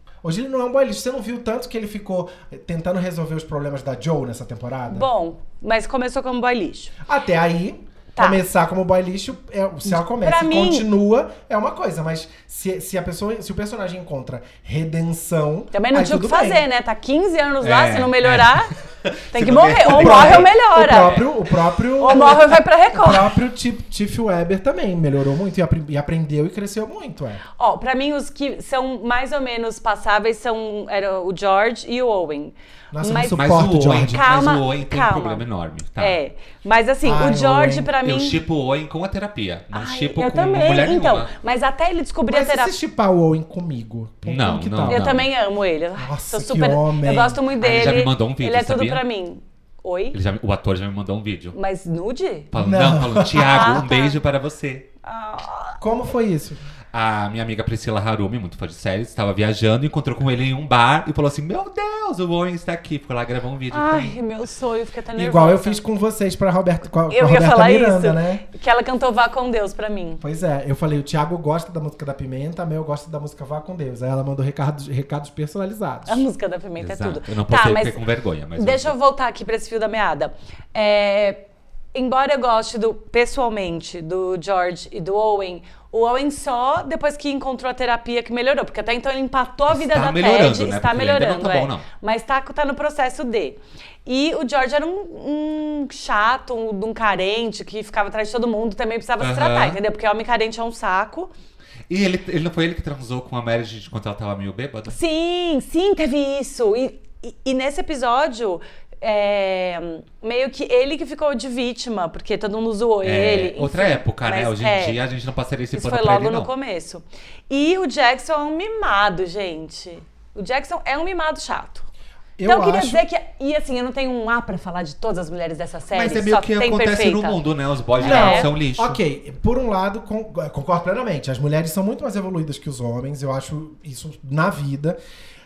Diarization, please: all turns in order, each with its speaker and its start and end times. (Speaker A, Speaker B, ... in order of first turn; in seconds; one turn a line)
Speaker A: 0.2-5.1
Speaker B: 4.9-6.9
Speaker A: 7.0-16.6
Speaker B: 8.2-8.4
Speaker B: 9.9-10.9
Speaker B: 15.7-18.7
Speaker C: 17.6-21.3
Speaker B: 19.3-21.1
Speaker A: 19.8-27.4
Speaker B: 22.0-23.3
Speaker B: 27.6-35.4
Speaker A: 32.9-34.2
Speaker C: 33.1-36.2
Speaker B: 36.0-38.4
Speaker A: 37.0-37.9
Speaker C: 38.0-41.3
Speaker B: 39.7-42.7
Speaker A: 42.3-45.1
Speaker C: 44.2-45.3
Speaker B: 44.9-50.2
Speaker A: 46.0-47.4
Speaker C: 47.6-49.0
Speaker C: 50.1-51.6
Speaker B: 51.5-52.5
Speaker C: 52.5-54.9
Speaker A: 52.5-53.8
Speaker B: 53.3-54.2
Speaker B: 55.0-55.8
Speaker A: 55.8-56.6
Speaker C: 56.9-64.2
Speaker B: 63.7-65.8
Speaker A: 65.1-68.4
Speaker B: 67.1-70.2
Speaker A: 70.2-76.2
Speaker B: 76.0-78.0
Speaker C: 76.8-78.9
Speaker B: 78.5-101.3
Speaker C: 89.7-91.8
Speaker C: 99.2-99.8
Speaker C: 101.9-105.0
Speaker B: 104.9-115.0
Speaker C: 113.0-116.5
Speaker B: 115.7-121.9
Speaker A: 122.4-123.0
Speaker B: 122.4-127.4
Speaker C: 125.9-129.0
Speaker A: 128.0-135.0
Speaker B: 128.0-128.5